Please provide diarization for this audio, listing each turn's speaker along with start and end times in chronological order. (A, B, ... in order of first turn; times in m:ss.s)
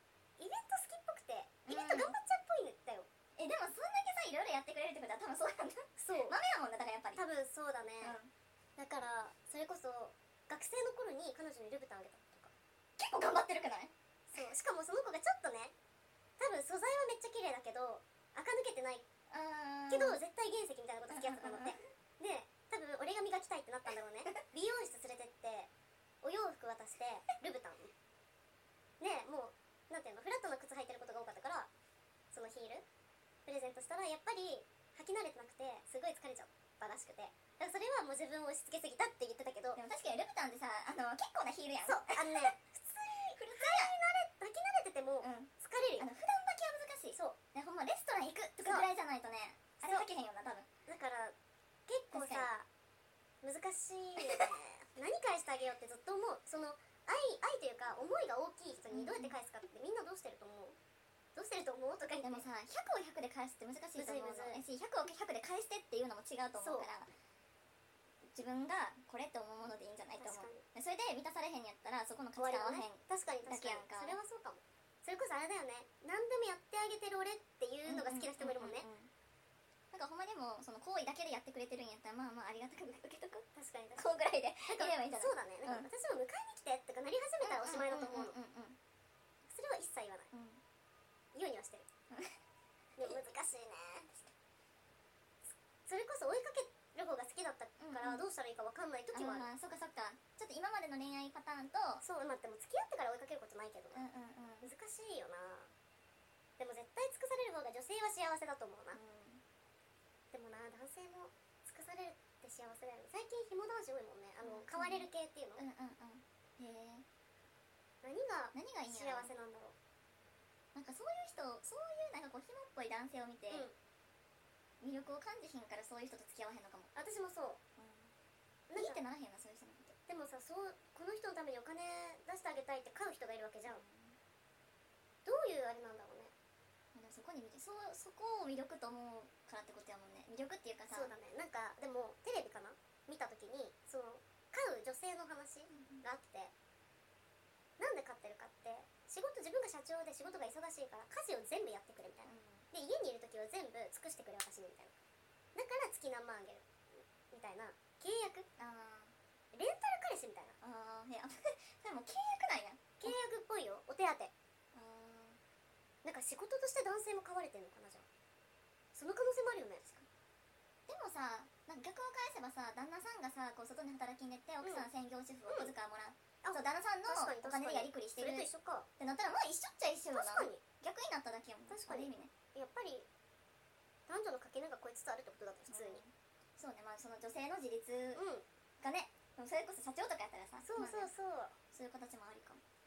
0:00.4-0:03.1 A
0:01.7-0:02.2 B
0:03.4-0:07.2 B
0:06.0-0:06.4 A
0:07.2-0:08.2 A
0:08.0-0:08.3 B
0:08.8-0:12.5 A
0:13.0-0:13.9 B
0:14.3-0:15.7 A
0:16.4-0:19.0 A
0:19.3-0:20.2 B
0:19.9-0:25.7 A
0:21.1-0:21.8 B
0:26.2-0:27.9 A
0:29.0-0:31.7 A
0:32.3-0:32.8 A
0:33.5-0:39.8 A
0:39.8-0:42.5 B
0:41.8-0:46.1 A
0:43.3-0:43.9 B
0:45.2-0:50.7 B
0:48.6-0:48.9 A
0:50.9-0:51.4 A
0:51.9-0:52.7 A
0:52.1-0:52.5 B
0:53.4-1:00.8 A
0:58.9-0:59.3 B
1:01.4-1:02.4 A
1:02.2-1:07.1 B
1:04.0-1:04.6 A
1:06.6-1:06.9 A
1:08.3-1:14.2 B
1:10.2-1:10.6 A
1:12.4-1:18.9 A
1:17.8-1:19.1 B
1:19.9-1:25.9 B
1:23.6-1:24.1 A
1:24.7-1:28.4 A
1:27.4-1:28.8 B
1:29.5-1:30.3 A
1:30.3-1:30.6 B
1:31.3-1:31.9 A
1:32.1-1:32.4 B
1:33.0-1:34.2 A
1:35.9-1:39.5 A
1:37.8-1:38.2 B
1:39.1-1:42.0 B
1:42.0-1:44.0 A
1:43.9-1:44.7 B
1:44.6-1:45.7 A
1:46.6-1:49.0 A
1:48.9-1:49.4 B
1:50.3-1:55.6 A
1:54.4-1:57.0 B
1:58.0-1:59.8 A
1:58.5-1:59.3 B
2:00.7-2:03.7 B
2:03.5-2:03.7 A
2:04.8-2:06.9 B
2:07.0-2:07.6 A
2:07.8-2:08.1 B
2:08.7-2:09.0 A
2:08.8-2:10.0 B
2:10.1-2:13.8 A
2:13.7-2:14.2 B
2:15.2-2:16.3 A
2:16.9-2:21.1 B
2:20.9-2:26.5 A
2:25.7-2:26.0 B
2:27.8-2:34.9 A
2:32.2-2:32.7 B
2:35.6-2:38.5 A
2:38.6-2:39.1 B
2:39.5-2:40.6 A
2:40.6-2:43.2 B
2:43.0-2:44.3 A
2:44.7-2:45.4 B
2:46.0-2:48.1 A
2:49.0-2:50.0 A
2:50.9-2:58.5 B
2:54.6-2:54.9 A
2:55.5-2:55.7 A
2:56.4-2:58.9 A
2:59.0-3:02.3 B
3:00.1-3:00.6 A
3:01.7-3:03.1 A
3:04.1-3:06.0 A
3:05.7-3:08.2 B
3:08.1-3:08.4 A
3:08.8-3:11.1 B
3:10.6-3:11.6 A
3:11.7-3:12.6 B